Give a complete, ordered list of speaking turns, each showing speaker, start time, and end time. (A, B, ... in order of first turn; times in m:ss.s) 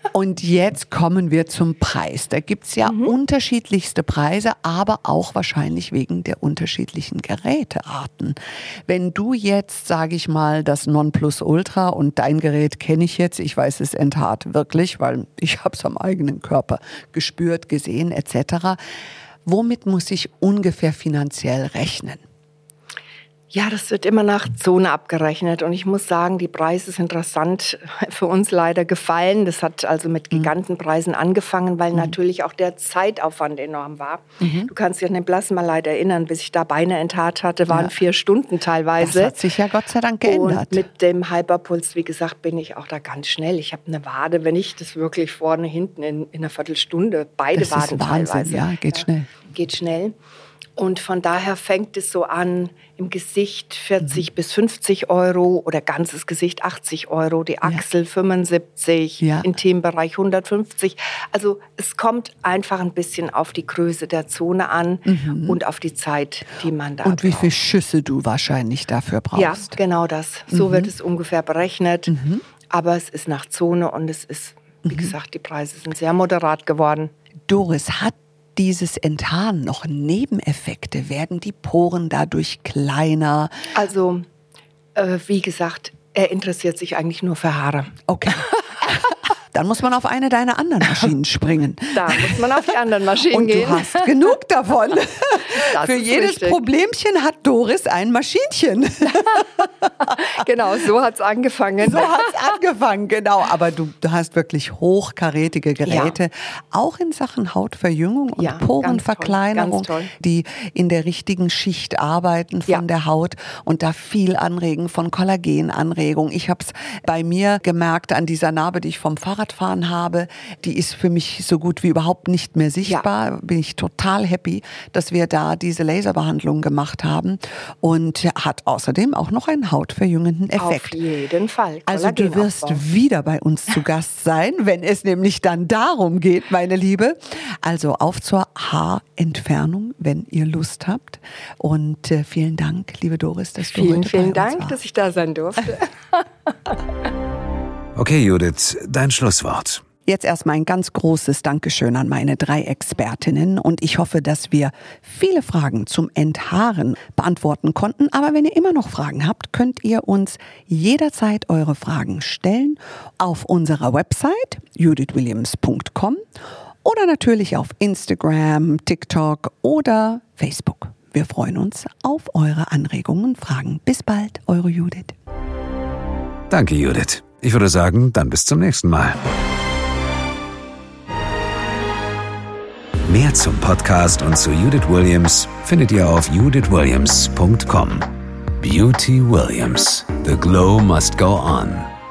0:00.1-0:18.8 A
0:02.8-0:03.1 B
0:19.4-0:22.2 A
0:23.5-0:39.4 B
0:34.4-0:34.7 A
0:37.7-0:37.9 A
0:39.0-0:40.8 A
0:40.2-0:50.2 B
0:47.6-0:49.3 A
0:50.8-1:07.5 B
0:59.2-0:59.5 A
1:05.1-1:05.6 A
1:07.0-1:09.8 A
1:09.4-1:12.1 B
1:10.5-1:10.9 A
1:12.1-1:12.4 A
1:12.7-1:17.1 B
1:14.9-1:15.1 A
1:17.5-1:23.7 A
1:23.7-1:24.3 B
1:25.0-1:28.6 B
1:28.1-1:32.6 A
1:31.9-1:34.1 B
1:33.3-1:40.4 A
1:35.5-1:36.6 B
1:39.1-1:39.4 B
1:40.1-1:42.3 B
1:41.8-2:11.0 A
1:45.9-1:46.2 B
1:48.4-1:50.1 B
2:10.6-2:12.8 B
2:11.9-2:24.8 A
2:23.6-2:26.2 B
2:28.0-2:29.8 C
2:30.1-2:46.2 A
2:46.8-2:55.2 A
2:56.5-2:59.2 C
3:03.1-3:11.9 C